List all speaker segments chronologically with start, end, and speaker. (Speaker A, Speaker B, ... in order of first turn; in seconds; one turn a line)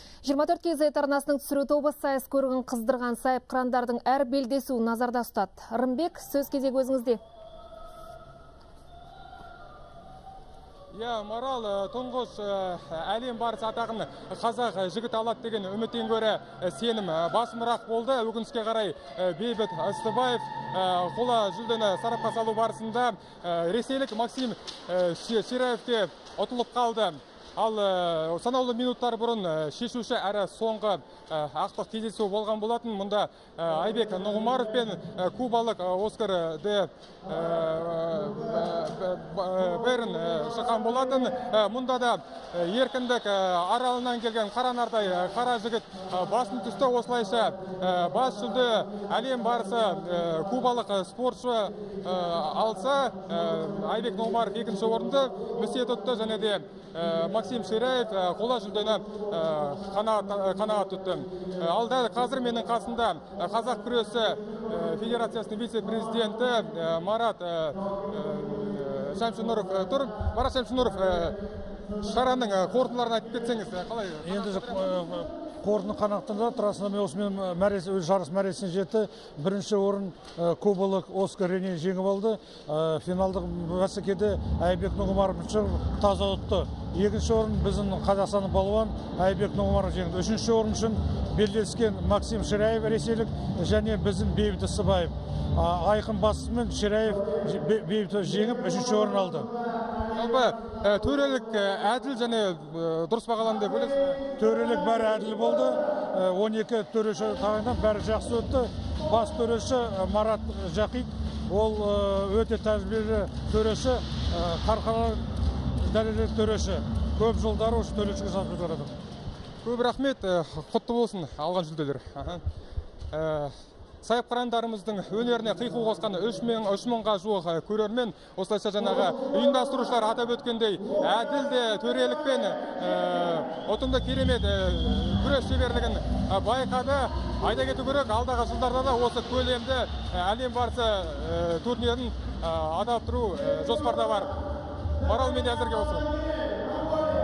Speaker A: 0.2-7.2
Speaker B: 10.9-71.4
Speaker B: 72.0-74.8
Speaker C: 74.2-99.5
Speaker B: 100.1-104.2
Speaker C: 104.4-118.9
Speaker B: 119.6-122.4
Speaker B: 123.1-144.3
Speaker B: 145.0-146.1